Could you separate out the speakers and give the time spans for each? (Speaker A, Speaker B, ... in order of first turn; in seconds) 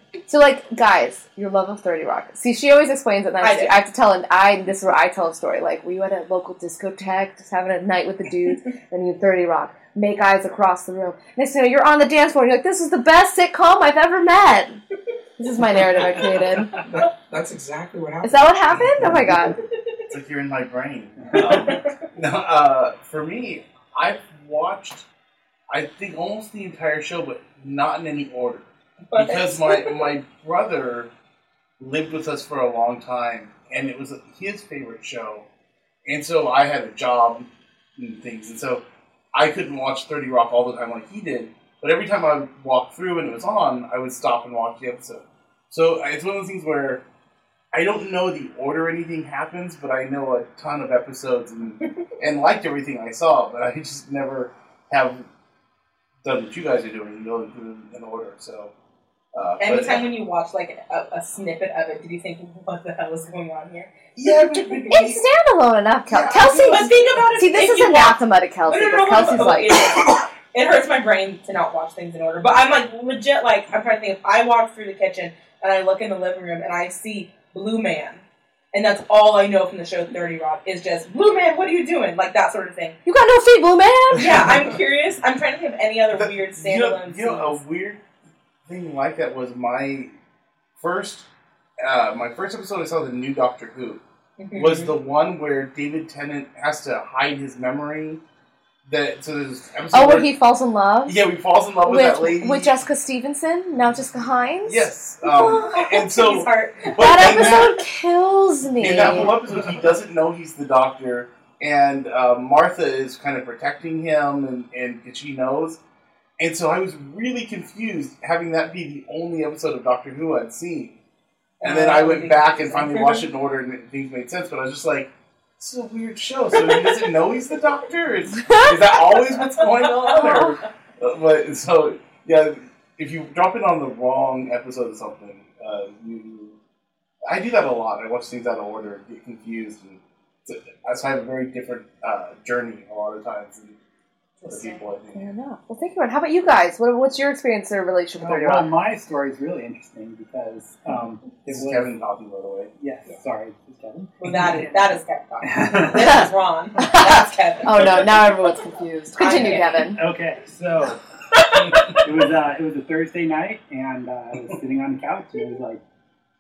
Speaker A: 0.3-14.8, 15.4-16.8, 18.2-19.6, 64.9-69.8, 83.1-84.5, 99.9-101.2, 101.8-104.9, 107.0-109.3, 128.4-128.7, 130.2-130.6, 145.2-148.7, 156.0-156.3, 156.8-160.0
Speaker B: 3.4-3.8, 21.5-21.9, 29.1-30.1, 59.6-65.2, 66.2-83.0, 84.2-87.6, 94.4-94.9, 105.2-107.5, 121.6-123.3, 129.4-130.3, 144.4-144.8, 154.2-158.2, 159.2-159.9
Speaker C: 16.9-19.2, 66.4-66.9
Speaker D: 20.1-25.1, 25.7-31.1, 31.8-35.5, 36.1-47.0, 47.7-55.2, 56.2-58.7, 59.3-60.1, 64.2-65.2, 86.2-88.0, 88.7-90.1, 90.8-91.3, 91.8-94.0, 94.5-98.2, 98.9-100.3, 101.1-102.8, 104.7-107.8, 108.8-115.8, 116.4-121.0, 121.6-136.6, 137.3-143.8, 144.5-145.3, 151.4-152.7
Speaker E: 148.2-151.9, 152.8-154.9, 155.4-156.2, 159.3-161.0, 161.9-165.8